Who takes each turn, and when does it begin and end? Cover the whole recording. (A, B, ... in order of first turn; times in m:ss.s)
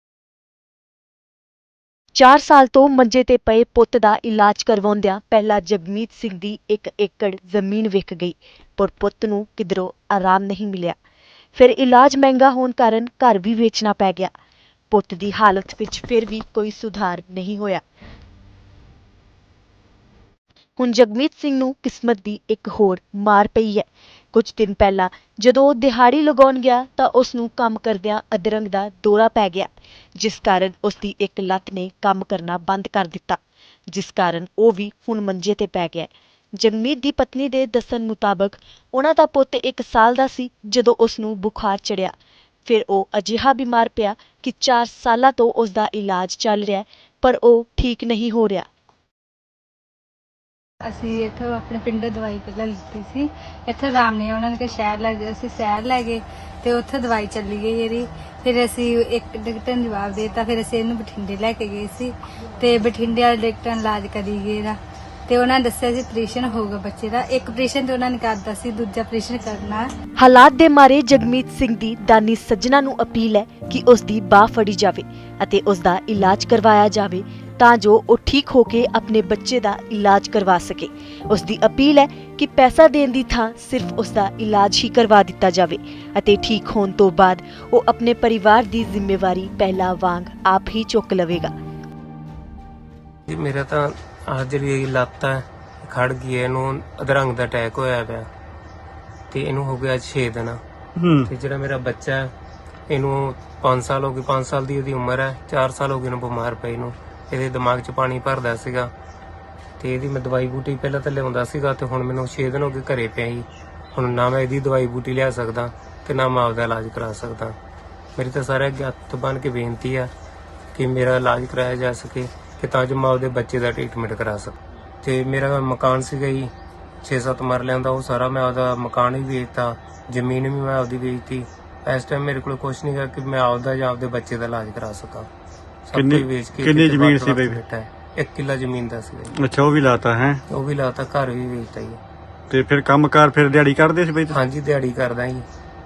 0:02.1-0:11.0 A
0:11.5-0:14.3 A
0:14.9-0:17.8 A
0:20.8-0:42.1 A
0:42.6-0:48.7 A
0:50.8-1:04.7 B
1:05.3-1:09.8 B
1:10.2-1:31.5 A
1:33.3-1:38.3 C
1:39.3-1:40.6 C
1:41.0-1:41.3 D
1:41.2-1:42.3 C
1:42.9-1:48.9 C
1:49.8-1:57.6 C
1:58.2-2:00.1 C
2:00.7-2:06.5 C
2:07.0-2:15.3 C
2:15.9-2:19.3 C
2:15.9-2:17.6 D
2:19.4-2:20.4 D
2:20.5-2:22.0 C
2:22.5-2:24.4 D
2:24.3-2:25.4 C